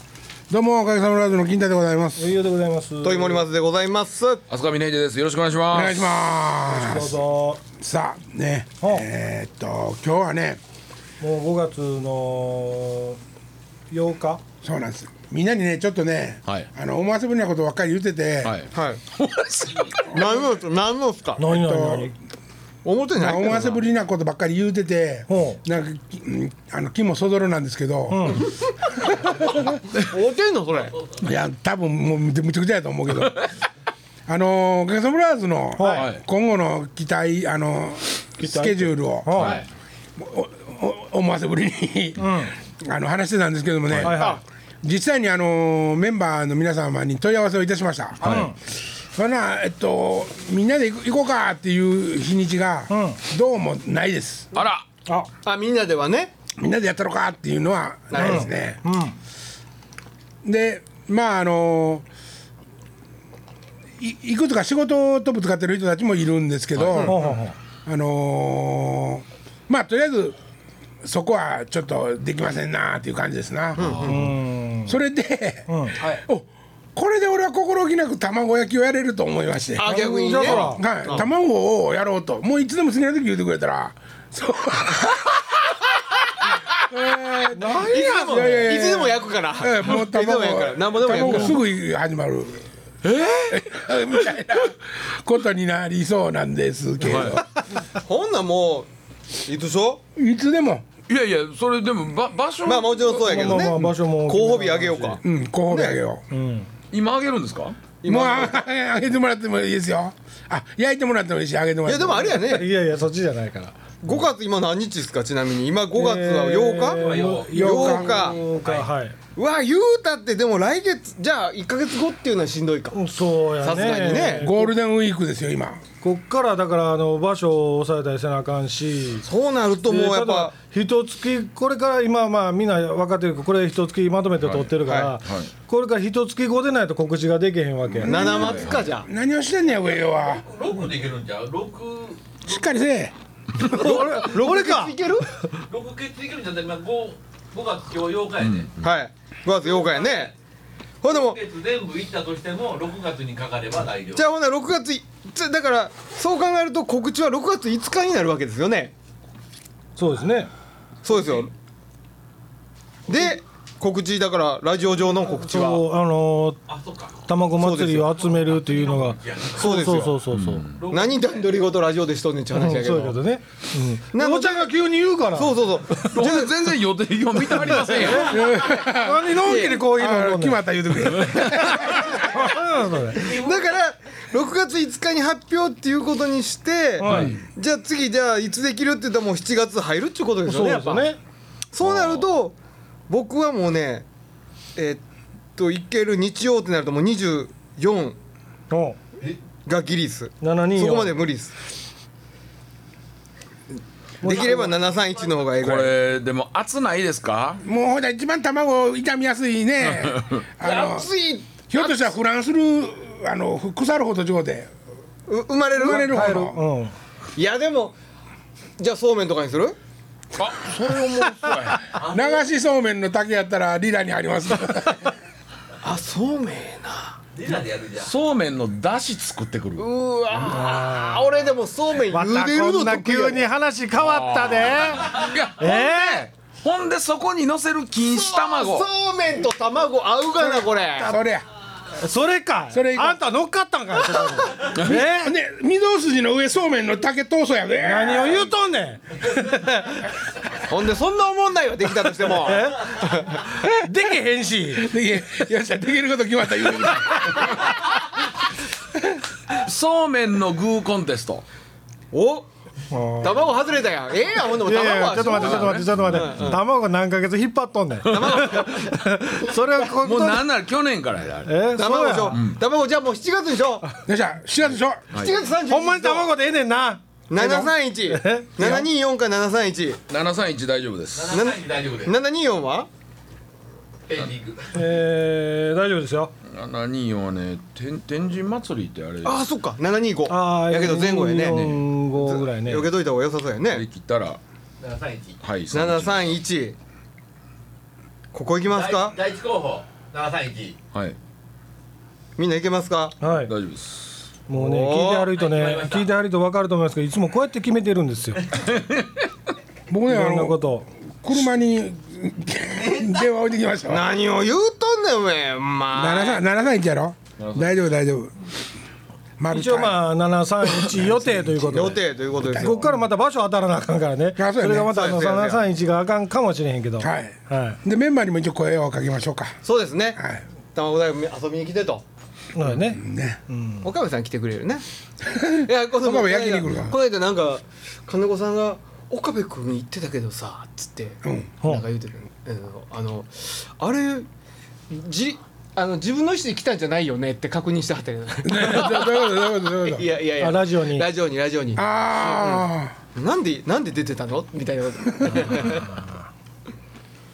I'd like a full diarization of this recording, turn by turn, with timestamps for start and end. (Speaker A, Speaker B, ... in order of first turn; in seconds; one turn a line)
Speaker A: 0.5-2.3
Speaker B: 2.2-3.4
Speaker C: 3.0-4.4
Speaker D: 4.5-6.1
Speaker A: 5.7-7.1
Speaker B: 6.7-7.6
Speaker A: 7.8-10.6
Speaker B: 11.2-13.2
Speaker B: 13.9-14.4
Speaker A: 14.6-18.5
Speaker D: 18.4-20.4
Speaker C: 18.7-19.0
Speaker C: 20.1-21.4
Speaker B: 21.4-22.1
Speaker A: 21.4-22.1
Speaker C: 22.8-23.8
Speaker A: 23.1-29.7
Speaker B: 25.3-25.6
Speaker B: 28.1-28.4
Speaker C: 29.9-30.9
Speaker A: 31.2-33.5
Speaker A: 34.3-39.6
Speaker B: 35.8-36.1
Speaker D: 35.9-36.2
Speaker B: 38.4-39.6
Speaker D: 39.4-39.6
Speaker A: 40.2-44.3
Speaker B: 42.2-42.5
Speaker B: 44.0-44.4
Speaker C: 44.1-44.4
Speaker A: 44.8-48.5
Speaker D: 48.2-48.5
Speaker B: 48.2-48.5
Speaker A: 49.1-54.5
Speaker B: 52.9-53.2
Speaker D: 54.5-54.8
Speaker C: 55.4-56.3
Speaker A: 56.6-58.8
Speaker C: 58.1-58.5
Speaker B: 58.1-59.1
Speaker A: 60.4-62.0
Speaker A: 64.0-67.2
Speaker D: 66.8-67.1
Speaker C: 66.8-67.2
Speaker B: 67.0-67.5
Speaker A: 67.8-70.4
Speaker A: 71.0-74.2
Speaker C: 73.8-74.3
Speaker D: 73.8-74.2
Speaker B: 74.0-75.0
Speaker A: 74.8-85.7
Speaker B: 75.7-76.0
Speaker C: 79.8-81.3
Speaker B: 79.8-80.8
Speaker A: 86.7-92.6
Speaker B: 87.5-88.9
Speaker C: 87.8-91.6
Speaker D: 93.0-94.0
Speaker A: 93.5-97.5
Speaker D: 97.0-97.4
Speaker C: 97.8-98.9
Speaker C: 99.4-100.0
Speaker A: 100.2-100.8
Speaker D: 101.1-103.5
Speaker C: 102.6-106.0
Speaker B: 103.1-105.2
Speaker A: 105.2-106.2
Speaker B: 106.3-106.7
Speaker D: 106.9-107.8
Speaker C: 108.0-108.6
Speaker A: 108.0-112.4
Speaker C: 111.8-112.7
Speaker B: 112.3-113.8
Speaker C: 114.0-118.4
Speaker B: 115.9-119.2
Speaker E: 116.9-118.9
Speaker A: 117.5-118.2
Speaker C: 119.3-123.0
Speaker B: 122.9-124.7
Speaker C: 123.6-124.5
Speaker A: 124.1-125.8
Speaker B: 126.0-129.3
Speaker C: 129.2-130.5
Speaker B: 129.8-138.5
Speaker D: 134.4-134.7
Speaker C: 134.8-135.1
Speaker D: 135.2-135.5
Speaker D: 138.0-138.9
Speaker C: 138.0-139.1
Speaker A: 138.1-140.4
Speaker E: 140.2-142.4
Speaker A: 142.4-143.1
Speaker B: 143.6-144.9
Speaker C: 143.6-145.4
Speaker E: 145.6-148.7
Speaker D: 148.4-148.9
Speaker C: 148.8-150.3
Speaker E: 149.6-150.3
Speaker C: 151.0-151.4
Speaker E: 151.0-154.2
Speaker C: 154.1-158.9
Speaker B: 159.9-160.5
Speaker C: 161.0-161.5
Speaker C: 163.1-165.8
Speaker B: 165.4-166.6
Speaker E: 166.7-167.3
Speaker B: 167.2-170.7
Speaker C: 167.5-168.1
Speaker E: 168.1-169.9
Speaker C: 169.5-170.2
Speaker D: 170.3-170.8
Speaker E: 170.8-171.5
Speaker C: 170.9-173.2
Speaker B: 172.5-176.1
Speaker C: 174.1-174.7
Speaker C: 175.3-176.5
Speaker D: 176.0-178.4
Speaker B: 177.7-180.6
Speaker A: 178.2-182.1
Speaker C: 179.4-179.7
Speaker D: 181.2-181.7
Speaker B: 181.4-183.3
Speaker E: 183.1-183.6
Speaker C: 183.2-191.1
Speaker B: 187.0-187.4
Speaker D: 187.0-187.4
Speaker B: 190.4-191.2
Speaker C: 191.7-192.5
Speaker D: 191.8-192.3
Speaker C: 193.1-194.1
Speaker C: 194.8-195.0
Speaker C: 195.5-198.2
Speaker B: 198.7-199.0
Speaker C: 199.6-201.6
Speaker B: 200.4-201.2
Speaker B: 204.2-204.7
Speaker C: 204.2-205.9
Speaker D: 205.6-207.6
Speaker A: 207.6-211.1
Speaker D: 209.9-210.4
Speaker C: 210.6-212.1
Speaker A: 211.7-214.7
Speaker C: 215.3-216.2
Speaker A: 215.8-216.6
Speaker B: 215.8-216.9
Speaker C: 217.3-217.9
Speaker C: 218.8-219.8
Speaker D: 220.4-221.9
Speaker E: 221.9-222.5
Speaker A: 222.0-225.1
Speaker C: 225.8-227.2
Speaker E: 227.3-228.1
Speaker D: 228.0-229.9
Speaker C: 229.8-233.4
Speaker B: 230.5-231.3
Speaker B: 232.1-236.3
Speaker D: 234.0-238.9
Speaker C: 238.0-241.2
Speaker B: 240.4-240.7
Speaker A: 241.0-241.4
Speaker B: 241.9-245.3
Speaker A: 242.7-243.2
Speaker C: 244.1-244.5
Speaker D: 244.7-245.0
Speaker A: 244.8-248.5
Speaker B: 247.8-250.1
Speaker C: 250.6-253.4
Speaker B: 252.3-254.9
Speaker A: 253.6-253.9
Speaker A: 254.7-257.8
Speaker D: 259.5-261.4
Speaker C: 262.1-262.5
Speaker B: 262.9-263.3
Speaker C: 263.2-266.6
Speaker B: 264.6-270.5
Speaker D: 265.2-266.6
Speaker D: 268.1-268.8
Speaker C: 268.1-269.1
Speaker D: 269.9-271.6
Speaker B: 271.4-272.4
Speaker C: 271.7-273.9
Speaker D: 272.3-272.6
Speaker A: 274.1-275.1
Speaker D: 275.1-275.4
Speaker C: 275.1-276.3
Speaker B: 275.6-277.0
Speaker C: 277.3-280.0
Speaker A: 277.3-277.7
Speaker B: 278.1-278.9
Speaker D: 280.1-281.4
Speaker E: 281.1-282.1
Speaker C: 281.3-282.9
Speaker E: 284.1-284.9
Speaker B: 284.7-286.3
Speaker D: 286.4-289.4
Speaker C: 289.2-293.8
Speaker B: 290.3-292.9
Speaker D: 291.5-291.8
Speaker D: 293.7-294.4
Speaker E: 294.8-295.4
Speaker D: 295.4-296.4
Speaker C: 295.7-296.8
Speaker C: 298.3-299.2
Speaker E: 298.7-300.8
Speaker C: 302.4-303.1
Speaker B: 303.2-303.5
Speaker D: 303.3-304.1
Speaker B: 304.5-308.4
Speaker C: 304.5-305.3
Speaker E: 305.3-306.1
Speaker D: 308.6-309.2
Speaker A: 309.9-310.6
Speaker B: 310.1-310.9
Speaker A: 311.2-314.1
Speaker C: 312.8-313.1
Speaker C: 313.9-316.4
Speaker A: 315.9-318.3
Speaker D: 317.4-317.7
Speaker A: 319.4-320.0
Speaker B: 319.5-327.8
Speaker A: 321.1-321.4
Speaker C: 321.6-322.9
Speaker A: 324.4-325.0
Speaker C: 324.9-325.6
Speaker A: 327.0-329.6
Speaker C: 329.6-330.2
Speaker A: 330.1-330.4
Speaker C: 330.7-332.0
Speaker B: 332.5-333.9
Speaker A: 332.8-333.4
Speaker C: 333.8-334.8
Speaker A: 335.2-336.9
Speaker C: 335.6-344.3
Speaker A: 341.2-341.5
Speaker C: 344.9-355.9
Speaker A: 348.4-350.1
Speaker B: 350.4-351.0
Speaker A: 351.8-352.9
Speaker A: 355.2-355.5
Speaker B: 355.6-356.1